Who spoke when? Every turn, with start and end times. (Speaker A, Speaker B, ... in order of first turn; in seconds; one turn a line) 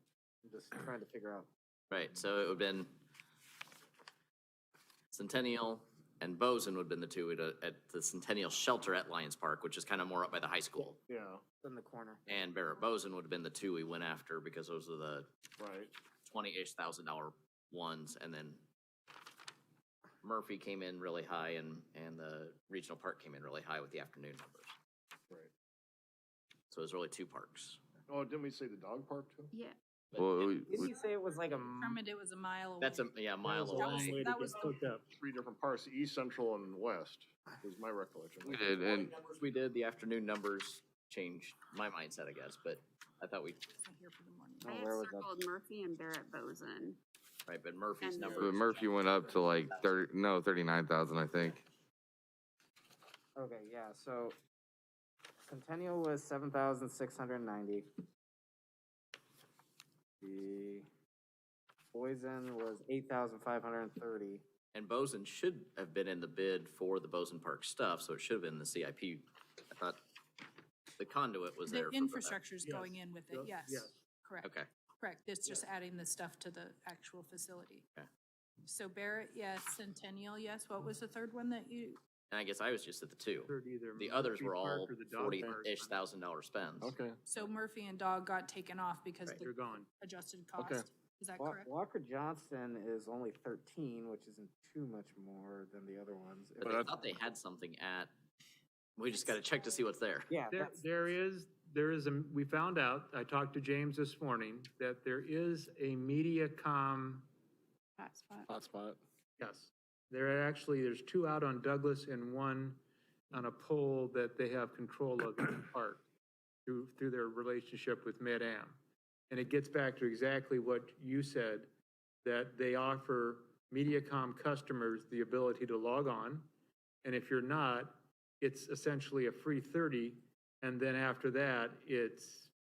Speaker A: 0.4-1.5
Speaker B: 1.9-2.9
Speaker B: 5.1-11.0
Speaker C: 11.1-11.4
Speaker A: 11.6-12.5
Speaker B: 12.3-15.3
Speaker C: 15.6-15.9
Speaker B: 16.2-18.6
Speaker B: 20.2-24.7
Speaker B: 26.7-27.8
Speaker C: 28.1-29.5
Speaker D: 29.5-29.8
Speaker B: 30.1-30.5
Speaker E: 30.2-30.9
Speaker A: 30.7-32.0
Speaker F: 31.8-33.1
Speaker B: 32.8-34.2
Speaker G: 33.4-35.0
Speaker F: 33.6-35.0
Speaker C: 35.1-38.7
Speaker B: 38.5-43.7
Speaker E: 38.5-39.1
Speaker F: 43.9-44.7
Speaker A: 44.6-45.3
Speaker D: 44.7-47.0
Speaker B: 47.5-49.9
Speaker D: 48.0-48.5
Speaker E: 48.4-51.6
Speaker A: 53.4-54.4
Speaker A: 55.5-57.9
Speaker A: 60.2-60.9
Speaker A: 61.9-64.4
Speaker B: 64.7-70.0
Speaker B: 71.0-72.4
Speaker F: 71.7-74.5
Speaker G: 72.6-74.0
Speaker F: 75.0-77.8
Speaker F: 78.7-82.0
Speaker B: 82.3-87.0
Speaker G: 83.5-86.0
Speaker C: 86.8-87.2
Speaker F: 87.3-89.5
Speaker G: 89.4-89.9
Speaker F: 90.0-91.7
Speaker C: 90.6-90.9
Speaker A: 91.4-97.2
Speaker B: 96.6-98.1
Speaker B: 99.0-100.3
Speaker A: 100.3-100.8
Speaker G: 100.5-107.3
Speaker F: 108.0-108.5
Speaker C: 108.5-109.0
Speaker G: 109.4-112.8
Speaker G: 113.3-116.0
Speaker G: 116.7-118.8
Speaker G: 119.3-121.7
Speaker G: 122.2-126.5
Speaker G: 127.0-132.5